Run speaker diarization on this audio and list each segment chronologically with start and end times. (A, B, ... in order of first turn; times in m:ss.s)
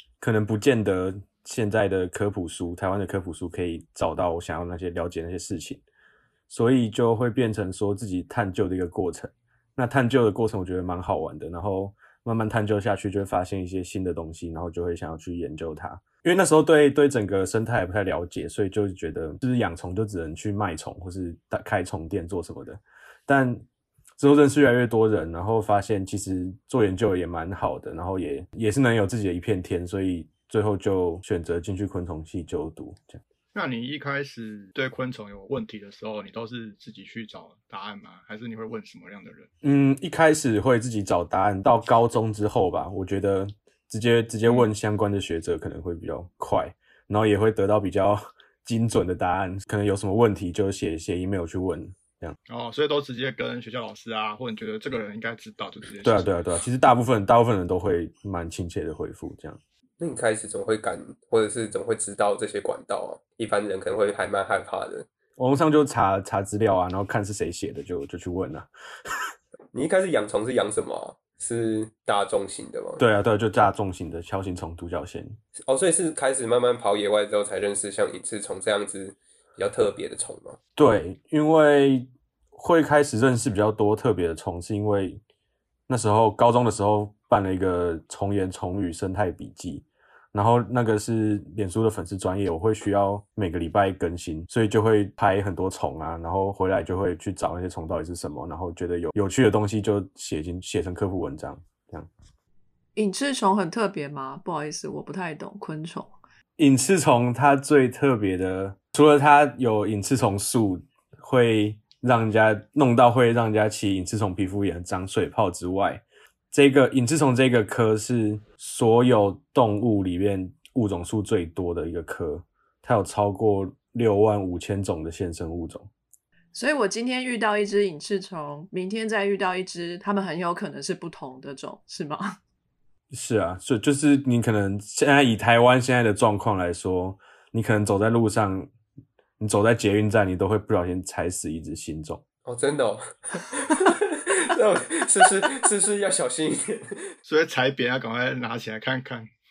0:00.2-0:05.8 A
0:06.5-0:23.6 A
0:24.2-0:33.2 A
0:33.5-0:39.5 B
0:39.6-0:52.4 A
0:52.5-0:56.4 B
0:56.0-0:59.6 A
1:00.0-1:05.1 C
1:05.4-1:09.3 A
1:09.7-1:13.0 C
1:13.0-1:15.4 A
1:15.7-1:20.6 C
1:20.8-1:25.2 A
1:25.9-1:42.1 A
1:43.0-1:46.2 D
1:46.6-2:05.9 A
2:06.5-2:12.4 D
2:13.1-2:18.7 A
2:19.4-2:22.2 A
2:22.5-2:27.1 C
2:27.3-2:29.3 B